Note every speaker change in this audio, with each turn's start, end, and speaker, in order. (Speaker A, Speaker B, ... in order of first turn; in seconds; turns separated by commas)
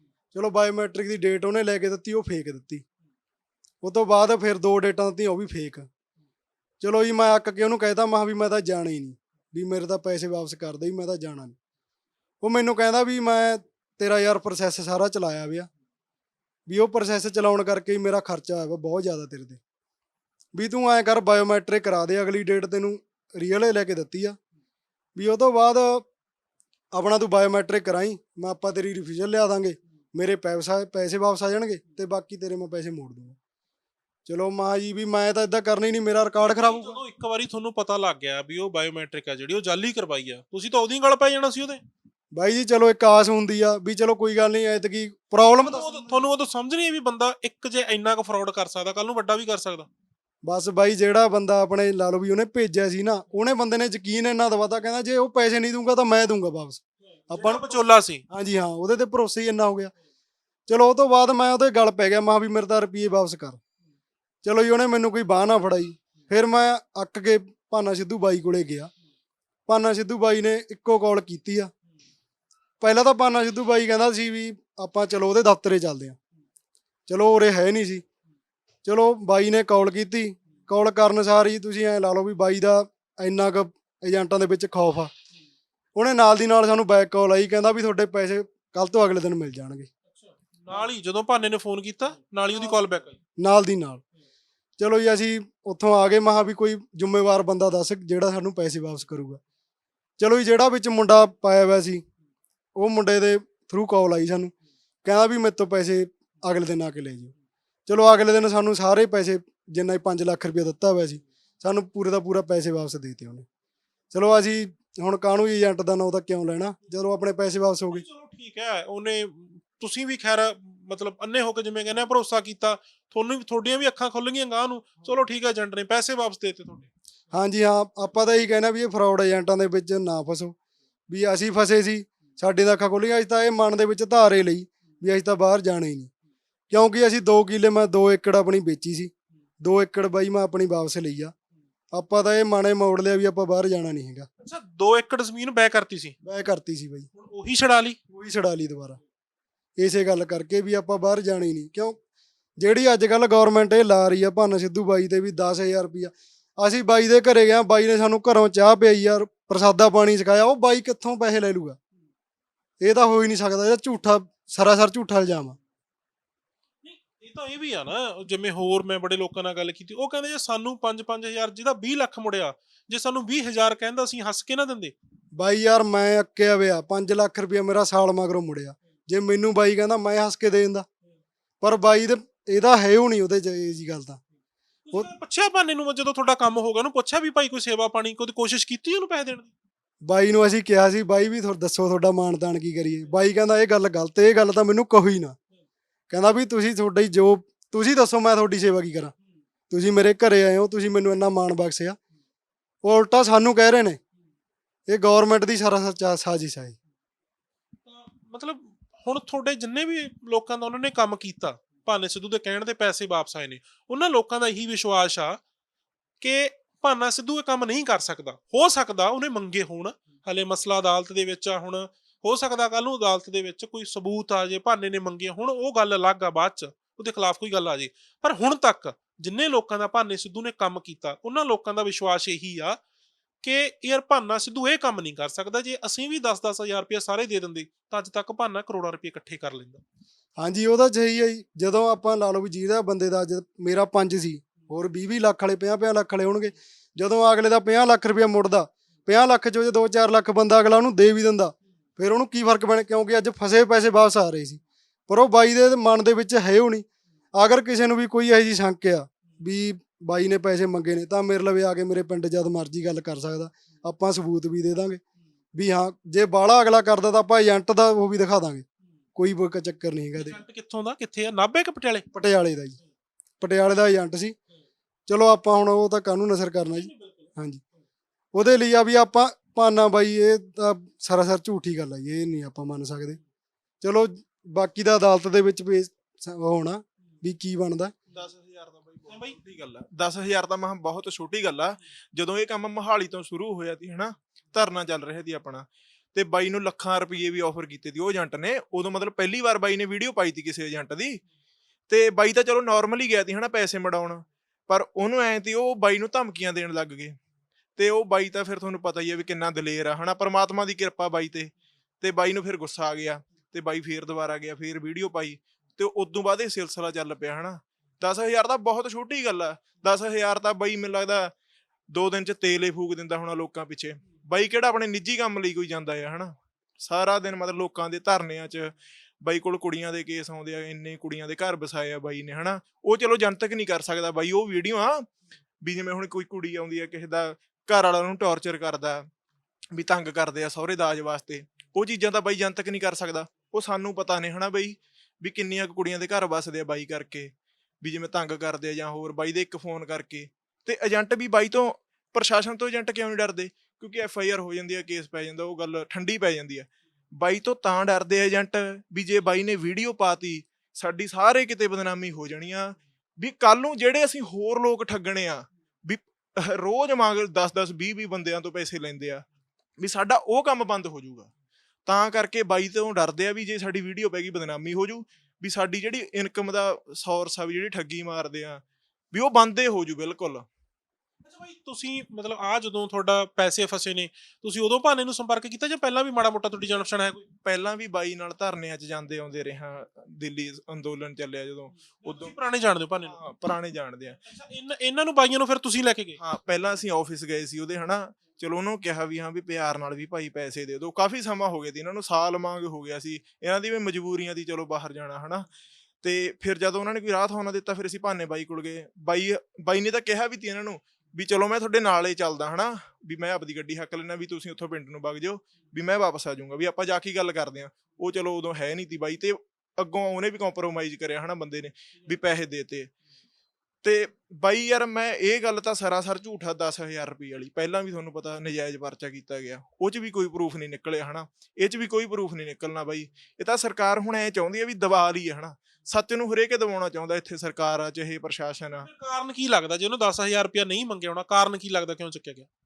Speaker A: 0.3-2.8, Speaker A: 3.8-5.9, Speaker A: 6.8-11.6, Speaker A: 12.4-15.7, Speaker A: 16.7-19.6, Speaker A: 20.5-24.4, Speaker A: 25.1-26.0, Speaker A: 26.9-33.4, Speaker A: 34.2-37.0, Speaker B: 36.4-41.8, Speaker A: 42.3-46.2, Speaker B: 45.5-49.9, Speaker A: 50.4-59.9, Speaker B: 57.3-58.2, Speaker A: 60.7-63.6, Speaker A: 64.4-68.9, Speaker A: 69.7-71.7, Speaker A: 72.8-76.2, Speaker A: 77.1-78.0, Speaker A: 78.8-85.1, Speaker A: 85.9-89.9, Speaker B: 90.2-93.2, Speaker A: 93.4-94.0, Speaker A: 94.8-99.4, Speaker A: 100.2-102.0, Speaker A: 102.8-107.3, Speaker A: 107.9-113.4, Speaker A: 114.1-118.0, Speaker B: 117.9-126.9, Speaker A: 127.3-130.5, Speaker A: 131.1-136.1, Speaker A: 136.7-141.3, Speaker A: 141.9-144.3, Speaker B: 144.4-146.2, Speaker A: 146.2-147.1, Speaker B: 147.1-148.0, Speaker A: 148.1-149.0, Speaker A: 149.8-152.0, Speaker A: 152.6-161.8, Speaker A: 162.8-165.6, Speaker B: 166.8-174.9, Speaker A: 175.3-180.8, Speaker A: 181.6-184.2, Speaker B: 184.9-189.5, Speaker A: 190.0-195.4, Speaker A: 196.1-199.1, Speaker A: 199.7-202.0, Speaker A: 202.8-204.0, Speaker A: 204.9-206.8, Speaker B: 207.8-215.4, Speaker B: 216.2-232.8, Speaker B: 233.4-239.8, Speaker A: 240.4-265.0, Speaker A: 265.5-270.4, Speaker B: 270.2-272.1, Speaker A: 272.1-272.8, Speaker A: 273.4-274.4, Speaker A: 275.1-277.6, Speaker B: 276.8-277.2, Speaker A: 278.3-283.2, Speaker A: 283.8-287.9, Speaker C: 288.1-301.2, Speaker B: 289.1-289.4, Speaker C: 301.9-307.1, Speaker C: 307.8-321.3, Speaker C: 321.9-335.0, Speaker C: 335.6-339.0, Speaker C: 339.7-347.3, Speaker C: 347.8-356.7, Speaker C: 357.2-369.2, Speaker C: 369.8-371.3, Speaker C: 371.9-380.4, Speaker B: 381.2-387.2, Speaker C: 387.4-392.4, Speaker B: 392.0-393.2, Speaker C: 393.0-394.2, Speaker B: 394.3-396.2, Speaker C: 396.2-405.5, Speaker C: 406.0-422.9, Speaker C: 423.8-438.9, Speaker B: 438.9-442.5